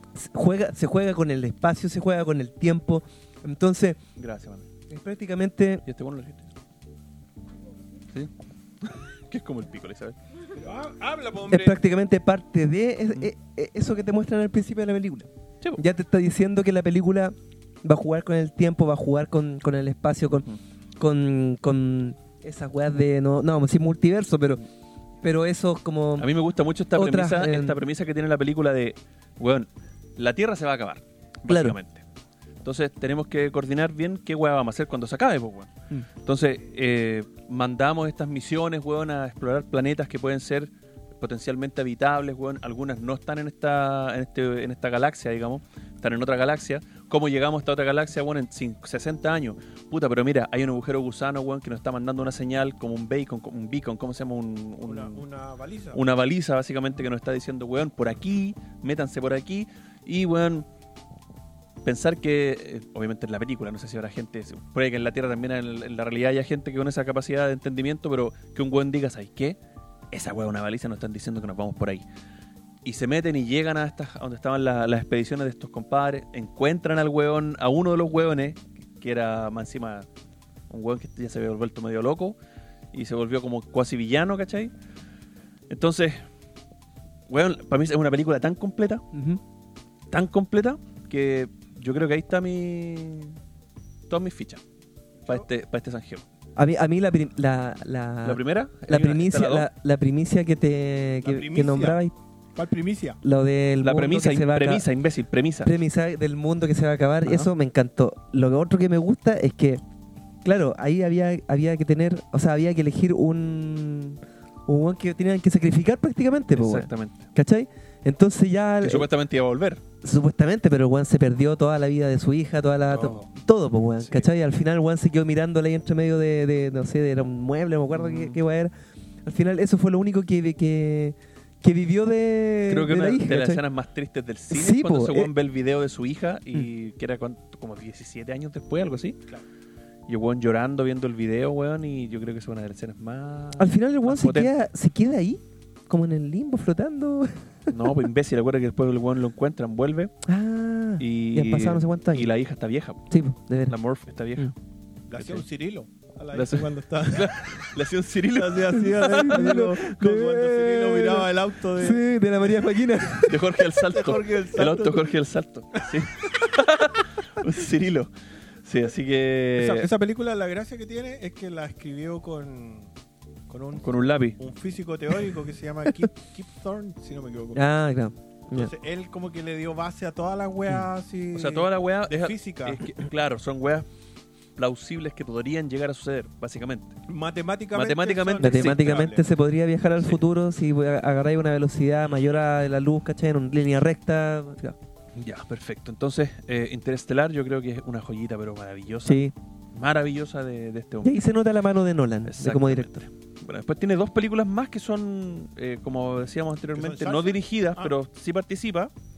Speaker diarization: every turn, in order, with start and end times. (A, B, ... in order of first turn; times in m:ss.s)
0:00.1-0:04.0 A
0:04.2-0:04.7 B
0:04.9-0:05.8 A
0:05.8-0:06.5 B
0:08.8-0:10.2 B
0:10.5-0:11.8 C
0:11.5-0:24.6 A
0:25.2-0:26.3 A
0:26.2-0:32.0 B
0:26.9-0:27.8 A
0:31.5-0:31.8 A
0:32.6-0:55.2 B
0:54.8-0:56.0 C
0:55.9-1:00.6 B
1:01.8-1:09.6 B
1:10.1-1:12.0 B
1:12.8-1:20.1 B
1:20.7-1:22.4 B
1:22.9-1:24.7 B
1:25.7-1:26.3 B
1:27.3-1:29.0 B
1:29.1-1:29.4 A
1:30.1-1:33.4 B
1:34.1-1:34.6 B
1:35.3-1:36.2 B
1:36.6-1:42.1 A
1:38.2-1:39.7 B
1:41.2-1:42.0 C
1:42.6-1:43.2 C
1:43.2-1:44.8 A
1:43.8-1:45.7 B
1:45.6-1:49.8 A
1:47.2-1:47.5 B
1:50.4-1:59.1 A
1:56.5-1:57.3 B
1:58.8-1:59.8 B
2:00.0-2:13.6 A
2:02.9-2:03.3 B
2:04.0-2:04.3 B
2:07.9-2:08.4 B
2:12.7-2:19.2 B
2:14.5-2:15.3 A
2:20.1-2:24.5 B
2:23.6-2:27.9 A
2:27.7-2:30.1 B
2:30.2-2:32.3 A
2:31.0-2:33.1 B
2:33.1-2:33.8 A
2:33.7-2:34.5 B
2:35.1-2:37.8 C
2:35.2-2:35.4 B
2:36.3-2:39.7 B
2:38.3-2:45.2 C
2:38.7-2:43.6 A
2:43.2-2:48.1 B
2:48.6-2:49.9 B
2:49.6-2:52.9 C
2:53.5-2:57.6 C
2:53.8-2:54.4 B
2:57.5-2:58.7 A
2:58.5-3:02.9 C
3:00.7-3:03.8 B
3:04.6-3:06.9 B
3:07.1-3:09.2 C
3:07.7-3:08.8 B
3:08.4-3:14.8 A
3:15.1-3:19.2 B
3:19.0-3:19.3 A
3:19.7-3:21.2 B
3:21.0-3:23.0 A
3:22.3-3:28.9 B
3:26.7-3:28.0 C